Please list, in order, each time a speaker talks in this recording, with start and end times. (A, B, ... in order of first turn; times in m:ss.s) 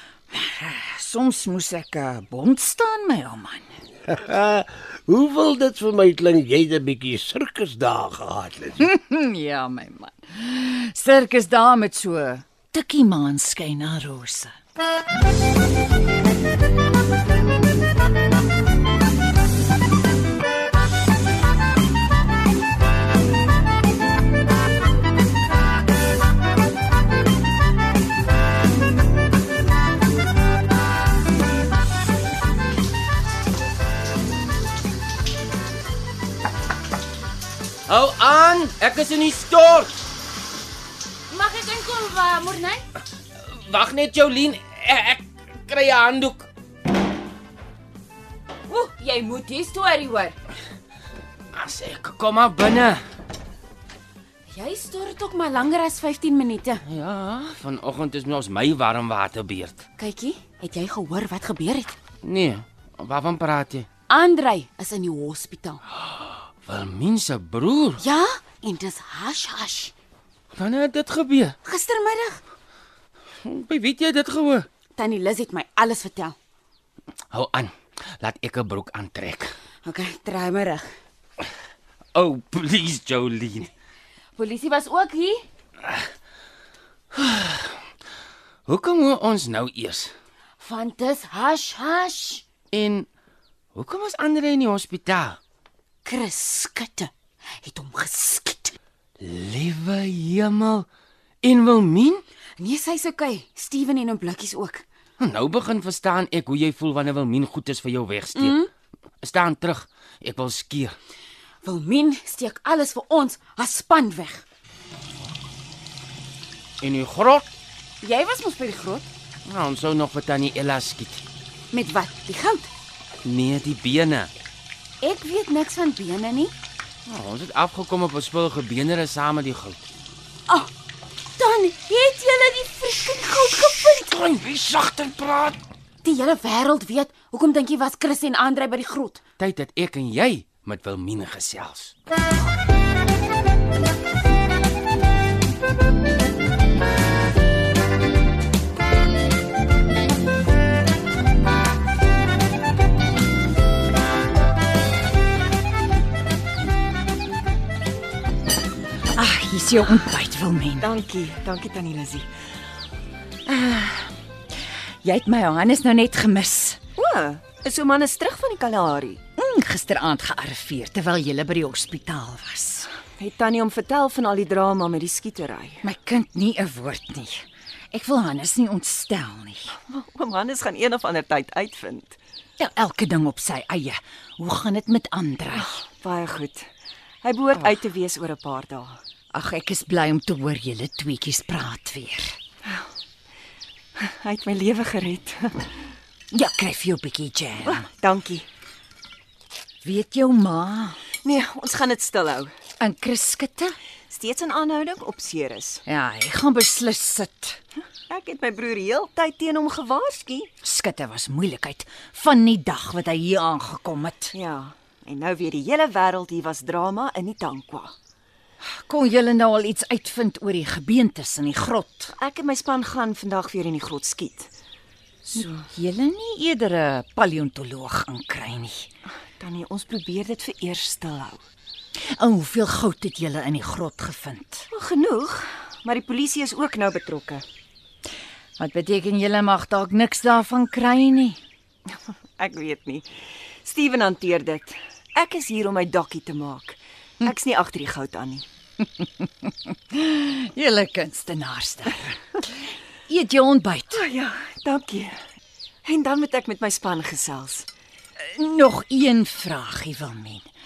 0:00.3-0:03.8 A
0:04.1-0:08.9 B
0:08.8-0:14.6 A
0:37.9-0:39.9 C
0:41.3-0:42.8 D
0:43.4-0:46.5 C
0:48.7-0:50.3 D
0:51.5-0:53.0 C
0:54.5-0:56.8 D
0:56.8-0:59.8 C
1:00.0-1:02.0 D
1:02.2-1:03.9 C
1:04.1-1:05.8 D
1:06.0-1:08.0 C
1:08.0-1:09.9 D
1:10.5-1:11.6 C
1:11.6-1:12.4 D
1:13.4-1:14.7 C
1:14.9-1:16.4 D
1:17.3-1:19.5 C
1:19.8-1:20.8 D
1:22.1-1:23.7 C
1:24.4-1:25.4 D
1:27.1-1:27.8 C
1:28.7-1:30.1 C
1:30.6-1:32.4 D
1:32.7-1:33.1 C
1:33.7-1:35.4 C
1:36.0-1:37.1 D
1:37.6-1:38.8 D
1:39.2-1:40.9 C
1:41.4-1:42.2 C
1:42.6-1:44.8 D
1:45.2-1:48.6 C
1:48.3-1:48.7 D
1:49.2-1:51.0 C
1:51.6-1:54.4 D
1:56.8-1:57.5 C
1:58.0-1:59.1 D
1:59.4-2:01.2 C
2:01.7-2:02.7 D
2:03.2-2:04.3 C
2:05.0-2:06.5 D
2:07.1-2:09.8 C
2:11.4-2:14.2 D
2:14.1-2:15.6 C
2:16.0-2:19.2 D
2:19.4-2:21.9 C
2:39.1-2:40.9 A
2:40.8-2:42.3 E
2:43.4-2:44.1 A
2:45.0-2:46.8 A
2:47.0-2:49.2 E
2:49.4-2:52.9 A
2:53.2-2:55.8 E
2:55.8-2:59.7 A
2:59.9-3:02.2 E
3:02.6-3:05.8 A
3:05.8-3:06.7 E
3:07.2-3:09.0 E
3:09.3-3:12.4 A
3:14.0-3:15.7 E
3:16.3-3:17.9 A
3:17.6-3:18.4 E
3:19.8-3:21.0 A
3:21.2-3:22.5 E
3:22.8-3:23.7 A
3:24.1-3:25.8 E
3:25.8-3:27.6 A
3:28.1-3:30.5 E
3:30.6-3:34.3 A
3:34.3-3:37.9 E
3:38.6-3:42.1 A
3:42.1-3:44.5 E
3:45.2-3:48.9 A
3:49.4-3:51.4 E
3:52.2-3:54.7 A
3:54.7-3:57.4 E
3:58.6-4:01.4 A
4:02.4-4:03.0 E
4:03.6-4:08.4 E
4:09.0-4:12.4 A
4:13.1-4:14.0 A
4:13.9-4:15.1 E
4:15.8-4:17.6 E
4:18.2-4:20.5 A